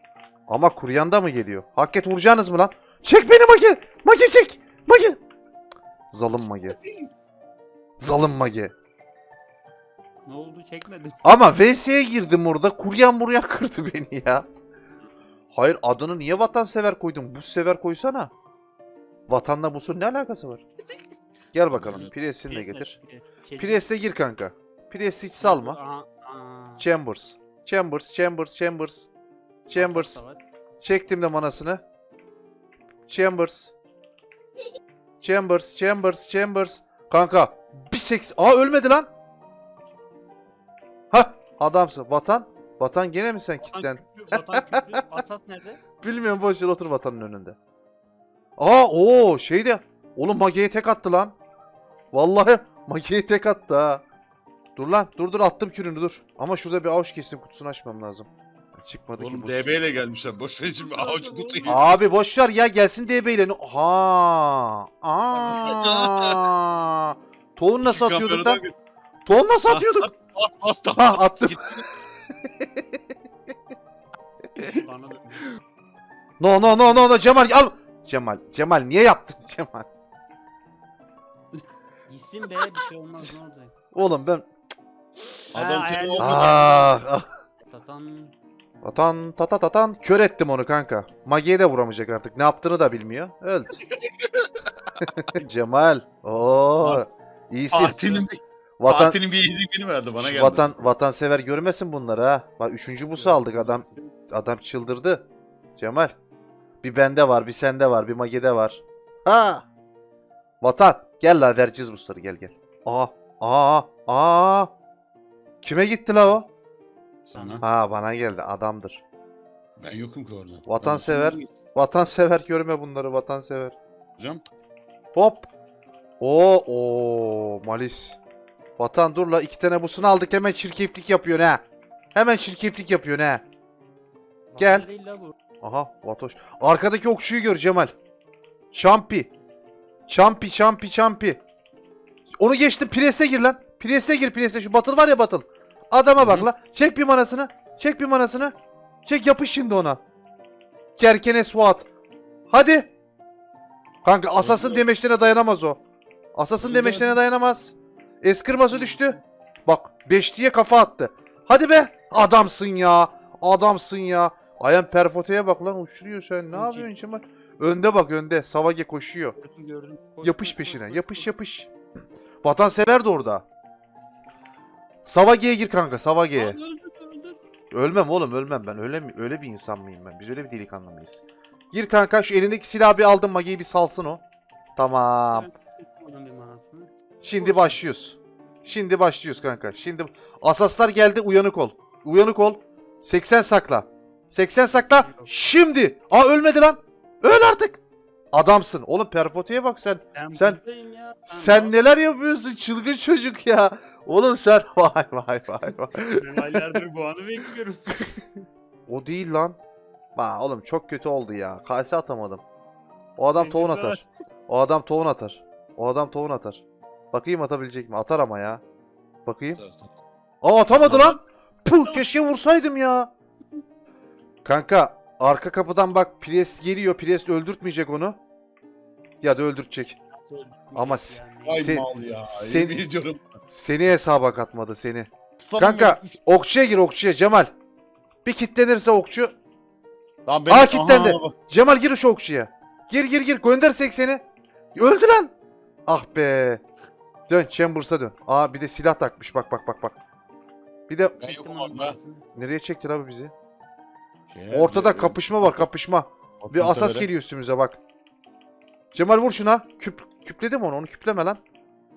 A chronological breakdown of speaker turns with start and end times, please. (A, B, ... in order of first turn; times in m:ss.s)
0:00.5-0:05.2 A
0:06.1-0:06.8 A
0:06.7-0:07.1 B
0:08.0-0:08.7 A
0:10.2-0:11.4 C
0:11.2-0:14.5 A
0:15.5-0:18.3 A
0:19.3-0:20.6 A
0:21.5-0:22.9 A
0:21.7-0:22.1 B
0:22.5-0:23.9 C
0:23.6-0:25.8 A
0:25.4-0:26.9 C
0:26.8-0:29.1 A
0:29.7-0:30.2 A
0:29.8-0:30.4 C
0:30.8-0:31.8 A
0:33.1-0:33.7 A
0:35.2-0:39.1 A
0:41.1-0:45.2 A
0:43.6-0:45.8 C
0:46.0-0:47.6 A
0:48.6-0:51.4 A
0:52.1-0:54.0 A
0:54.8-0:58.3 A
0:58.8-0:59.8 A
0:59.2-1:02.0 B
1:00.8-1:01.9 C
1:01.7-1:08.6 A
1:05.4-1:06.5 B
1:07.8-1:08.7 B
1:09.3-1:10.1 A
1:09.7-1:11.9 B
1:11.0-1:11.6 A
1:12.4-1:13.0 A
1:14.6-1:15.5 C
1:16.4-1:19.9 A
1:22.1-1:23.7 C
1:23.9-1:24.5 A
1:25.5-1:26.8 B
1:25.6-1:26.9 C
1:26.2-1:27.3 A
1:27.6-1:28.3 C
1:28.8-1:33.8 A
1:33.9-1:35.2 B
1:35.3-1:38.1 A
1:37.7-1:40.9 B
1:38.8-1:39.2 A
1:40.2-1:45.2 A
1:43.2-1:44.1 C
1:45.8-1:46.1 A
1:46.8-1:49.7 A
1:50.6-1:54.7 A
1:55.6-1:56.5 A
1:57.2-1:57.6 B
1:57.4-1:57.6 C
1:57.6-1:59.0 A
1:59.8-2:01.4 B
2:00.7-2:03.8 A
2:04.2-2:04.4 B
2:05.2-2:05.5 A
2:06.2-2:08.2 A
2:08.8-2:11.6 A
2:12.1-2:13.4 A
2:14.5-2:15.3 C
2:14.6-2:14.9 A
2:15.6-2:17.9 A
2:18.7-2:19.3 A
2:20.1-2:21.4 A
2:22.4-2:28.5 A
2:26.2-2:26.5 B
2:29.1-2:30.0 A
2:31.0-2:31.9 A
2:32.5-2:32.9 A
2:34.0-2:35.8 A
2:34.4-2:34.9 B
2:36.4-2:49.4 A
2:36.7-2:36.9 B
2:38.7-2:39.2 C
2:46.5-2:46.9 C
2:49.4-2:51.3 C
2:50.2-2:51.7 A
2:52.4-2:53.4 A
2:55.1-2:56.6 A
2:56.4-2:57.4 C
2:57.7-3:04.2 A
3:04.8-3:05.5 A
3:05.3-3:07.8 C
3:07.2-3:17.8 A
3:14.7-3:15.3 C
3:18.3-3:20.6 A
3:20.2-3:21.8 C
3:21.3-3:26.6 A
3:26.0-3:28.0 C
3:28.9-3:29.6 A
3:30.2-3:32.4 A
3:33.2-3:36.6 A
3:33.3-3:34.1 C
3:37.1-3:38.6 A
3:39.3-3:39.6 A
3:39.5-3:39.9 B
3:40.4-3:43.1 A
3:40.7-3:41.1 B
3:40.8-3:41.2 C
3:44.4-3:48.2 A
3:49.2-3:50.0 A
3:50.2-3:51.7 C
3:50.8-3:52.8 A
3:51.5-3:53.2 B
3:53.6-3:57.5 A
3:55.4-3:56.2 B
3:58.2-3:59.3 A
4:00.3-4:01.3 B
4:00.5-4:04.2 A
4:04.8-4:05.3 A
4:05.9-4:06.6 A
4:07.3-4:10.0 A
4:10.9-4:11.2 A
4:11.2-4:12.0 B
4:11.2-4:12.2 C
4:12.4-4:13.3 A
4:14.3-4:15.5 B
4:14.5-4:17.8 A
4:16.4-4:17.1 B
4:18.9-4:21.4 A